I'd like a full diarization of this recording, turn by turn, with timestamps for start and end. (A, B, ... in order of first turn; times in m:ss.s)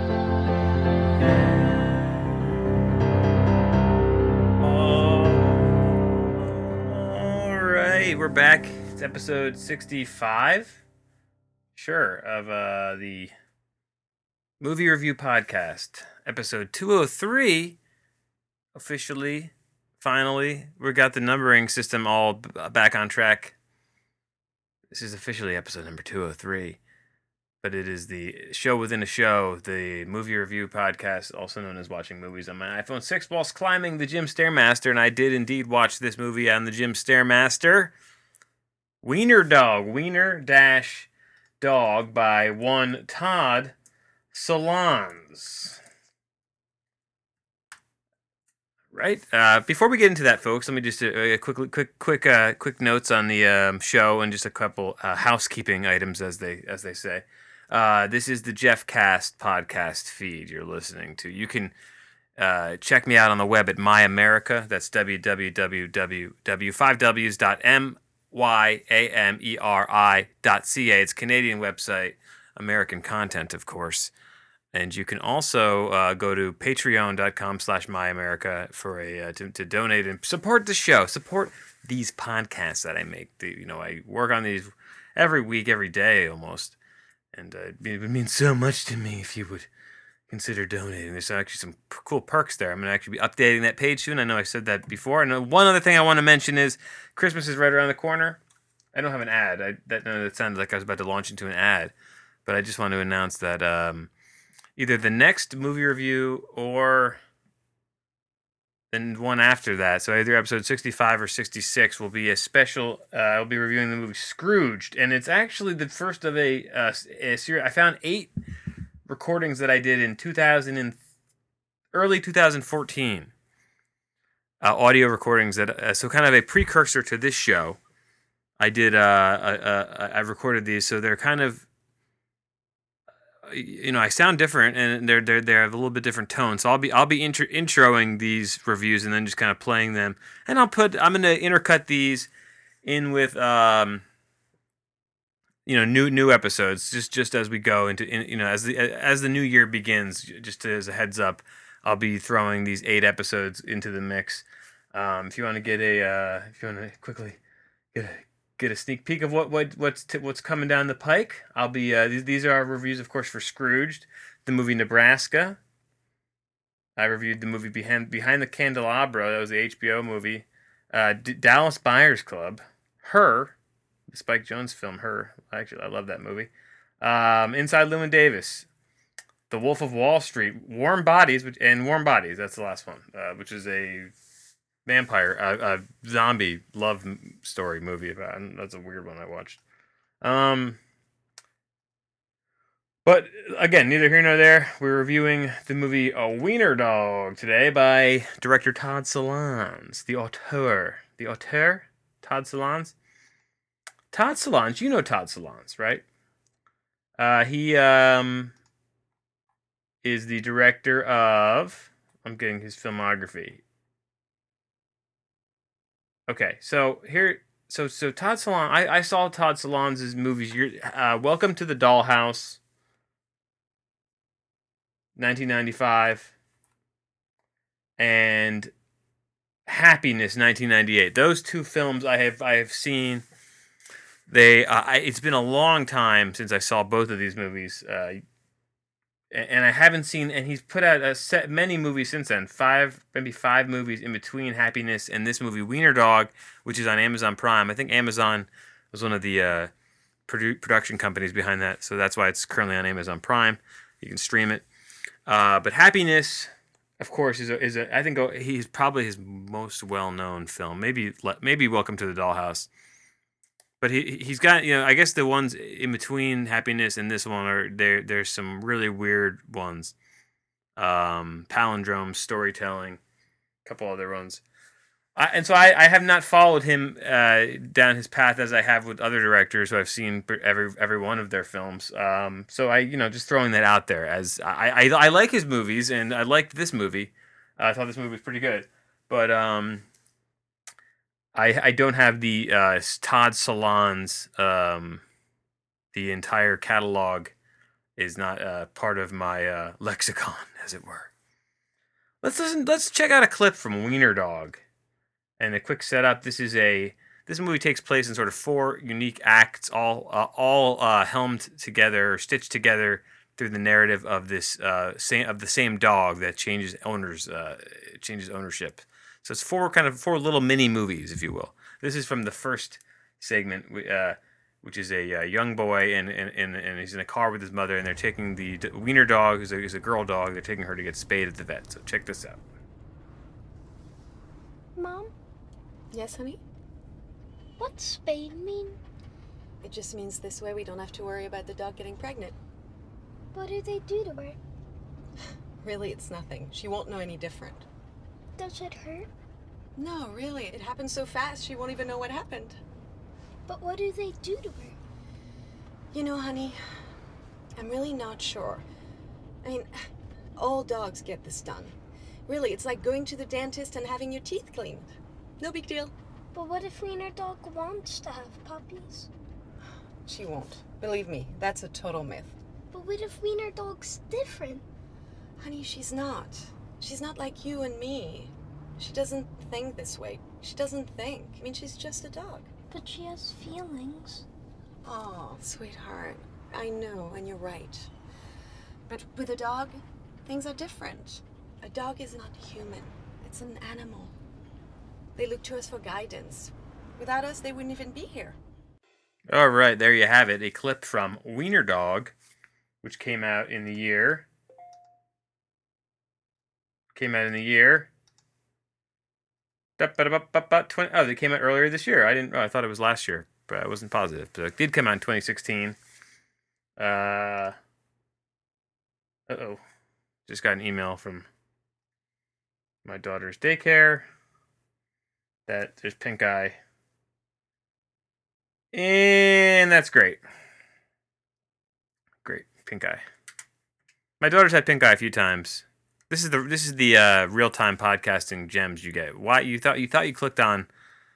0:01.2-0:02.6 A
0:04.6-0:10.8 A
0:11.8-0:13.3 A
0:14.6-0:17.8 A
0:18.7-0:23.6 A
0:24.9-0:26.8 A
0:27.6-0:37.9 A
0:39.0-0:41.1 A
0:41.6-0:43.7 A
0:44.3-0:45.8 A
0:48.9-1:01.7 A
1:02.4-1:14.1 A
1:14.7-1:26.8 A
1:27.3-1:29.7 A
1:30.3-1:38.4 A
1:38.9-1:41.9 A
1:42.5-1:44.1 A
1:44.8-1:47.2 A
1:48.9-1:58.3 A
1:59.1-2:01.0 A
2:01.9-2:03.3 A
2:04.6-2:07.8 A
2:08.6-2:11.7 A
2:13.4-2:22.3 A
2:22.8-2:24.0 A
2:25.7-2:37.4 A
2:37.9-2:45.6 A
2:47.0-2:53.6 A
2:54.1-2:58.7 A
2:59.5-3:04.1 A
3:04.8-3:09.6 A
3:10.2-3:10.8 A
3:13.0-3:23.0 A
3:24.1-3:26.0 A
3:27.2-3:28.5 A
3:30.0-3:33.6 A
3:36.3-3:42.6 A
3:45.2-3:46.3 A
3:48.0-3:48.7 A
3:49.7-3:53.2 A
3:54.3-3:58.2 A
3:59.3-4:09.7 A
4:10.3-4:14.7 A
4:15.3-4:22.7 A
4:23.8-4:30.0 A
4:30.8-4:33.0 A
4:33.6-4:34.4 A
4:35.2-4:49.8 A
4:51.4-4:55.0 A
4:55.9-4:57.3 A
4:58.0-5:01.1 A
5:02.2-5:04.6 A
5:05.4-5:32.4 A
5:34.8-5:35.1 B
5:35.9-5:36.4 C
5:37.6-5:38.8 B
5:39.6-5:42.4 C
5:43.3-5:44.4 B
5:45.6-5:47.7 C
5:48.4-5:49.1 B
5:49.8-5:52.6 C
5:53.5-5:54.8 B
5:55.9-5:56.6 C
5:57.6-5:58.6 C
5:59.4-5:59.7 C
6:00.4-6:01.8 C
6:02.3-6:04.9 C
6:05.4-6:05.9 C
6:06.3-6:09.1 B
6:10.0-6:12.4 C
6:12.7-6:14.6 B
6:15.4-6:22.5 C
6:22.7-6:24.2 B
6:24.8-6:27.9 C
6:28.9-6:34.1 C
6:35.2-6:38.4 C
6:39.3-6:42.1 A
6:42.8-6:44.3 A
6:46.9-6:47.9 A
6:49.8-6:55.8 A
6:56.8-6:57.6 A
6:59.3-6:59.6 A
7:00.3-7:01.3 A
7:02.8-7:04.1 A
7:05.5-7:06.6 A
7:08.7-7:10.2 A
7:12.2-7:13.0 A
7:14.2-7:20.7 A